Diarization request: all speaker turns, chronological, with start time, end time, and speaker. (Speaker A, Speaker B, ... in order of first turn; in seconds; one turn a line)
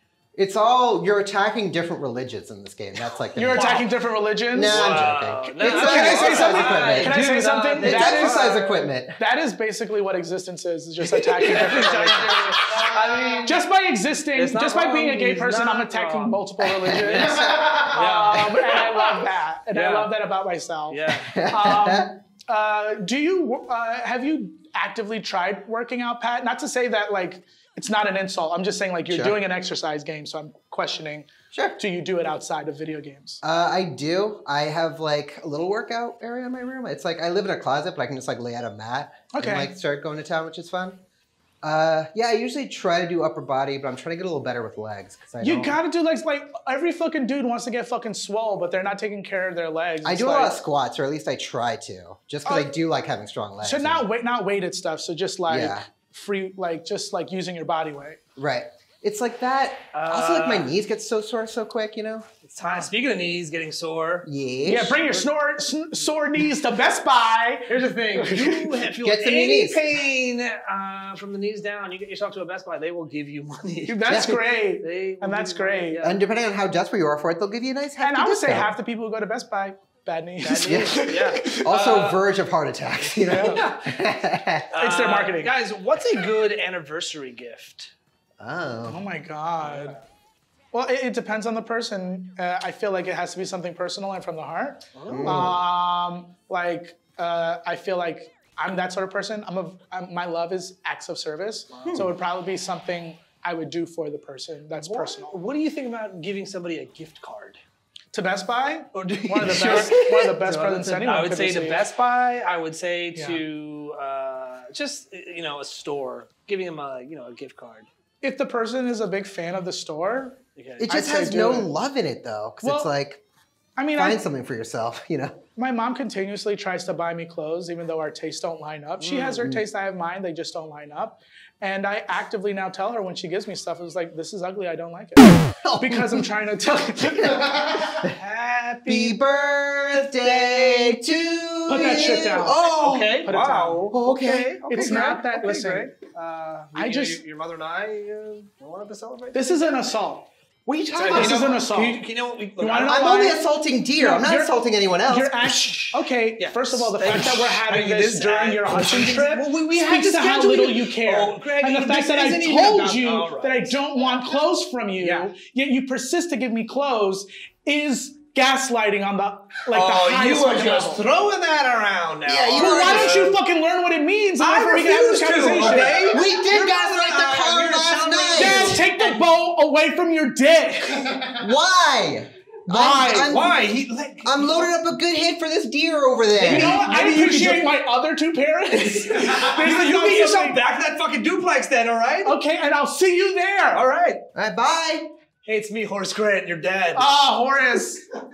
Speaker A: 0.3-3.9
Speaker B: 3.3-5.0
Speaker C: 3.5-3.9
Speaker A: 4.5-7.2
Speaker C: 4.6-8.8
Speaker B: 5.6-8.7
Speaker A: 7.8-9.2
Speaker B: 9.2-12.6
Speaker C: 11.1-13.5
Speaker A: 11.7-13.5
Speaker B: 13.3-33.4
Speaker C: 14.3-20.1
Speaker A: 16.6-17.9
Speaker C: 20.9-21.3
Speaker A: 21.2-22.1
Speaker A: 29.1-29.4
Speaker A: 31.5-31.8
Speaker A: 33.4-41.0
Speaker B: 39.3-39.7
Speaker A: 41.6-45.8
Speaker B: 45.4-50.6
Speaker A: 50.0-54.0
Speaker B: 53.6-58.2
Speaker A: 55.5-55.8
Speaker A: 58.4-62.3
Speaker C: 59.9-60.7
Speaker C: 62.4-64.2
Speaker B: 62.6-62.9
Speaker A: 64.2-65.0
Speaker B: 64.6-68.7
Speaker C: 65.0-65.3
Speaker C: 67.7-74.2
Speaker A: 69.0-69.8
Speaker B: 73.9-76.0
Speaker A: 74.1-74.4
Speaker C: 74.8-76.2
Speaker A: 76.0-78.7
Speaker B: 78.0-81.7
Speaker C: 80.4-82.3
Speaker A: 80.6-81.0
Speaker A: 81.6-84.7
Speaker C: 83.0-83.8
Speaker B: 83.2-83.6
Speaker C: 84.7-87.9
Speaker B: 84.8-85.5
Speaker A: 88.4-89.0
Speaker B: 88.9-90.0
Speaker B: 90.7-105.4
Speaker C: 94.9-95.6
Speaker A: 95.1-95.6
Speaker C: 101.7-102.1
Speaker C: 104.8-107.6
Speaker B: 108.1-111.9
Speaker C: 108.9-117.9
Speaker A: 109.5-110.2
Speaker B: 113.1-113.4
Speaker B: 118.2-121.7
Speaker C: 120.5-120.8
Speaker A: 120.8-123.2
Speaker B: 122.6-122.9
Speaker B: 123.8-124.2
Speaker A: 123.9-125.4
Speaker B: 125.5-138.0
Speaker C: 129.0-129.4
Speaker A: 135.6-136.2
Speaker A: 137.2-138.1
Speaker C: 137.8-139.2
Speaker A: 138.8-143.3
Speaker C: 139.9-141.2
Speaker B: 141.7-142.7
Speaker C: 141.8-142.0
Speaker C: 142.7-149.6
Speaker B: 143.2-143.9
Speaker A: 143.9-145.2
Speaker B: 144.7-145.9
Speaker B: 146.7-147.2
Speaker B: 149.3-150.3
Speaker A: 150.7-151.5
Speaker C: 150.9-152.9
Speaker B: 151.0-152.0
Speaker B: 152.6-171.0
Speaker A: 152.8-155.9
Speaker C: 156.4-163.8
Speaker C: 165.0-165.3
Speaker C: 169.7-173.3
Speaker A: 172.2-173.3
Speaker B: 172.5-176.3
Speaker C: 174.4-179.2
Speaker A: 176.1-178.8
Speaker B: 178.3-181.3
Speaker A: 181.3-183.6
Speaker B: 182.7-183.4
Speaker C: 183.2-184.7
Speaker A: 184.2-186.8
Speaker C: 186.4-187.7
Speaker B: 186.4-190.6
Speaker C: 188.7-192.3
Speaker B: 192.2-193.8
Speaker C: 193.7-194.2
Speaker A: 194.3-195.1
Speaker C: 195.4-197.3
Speaker B: 196.9-198.0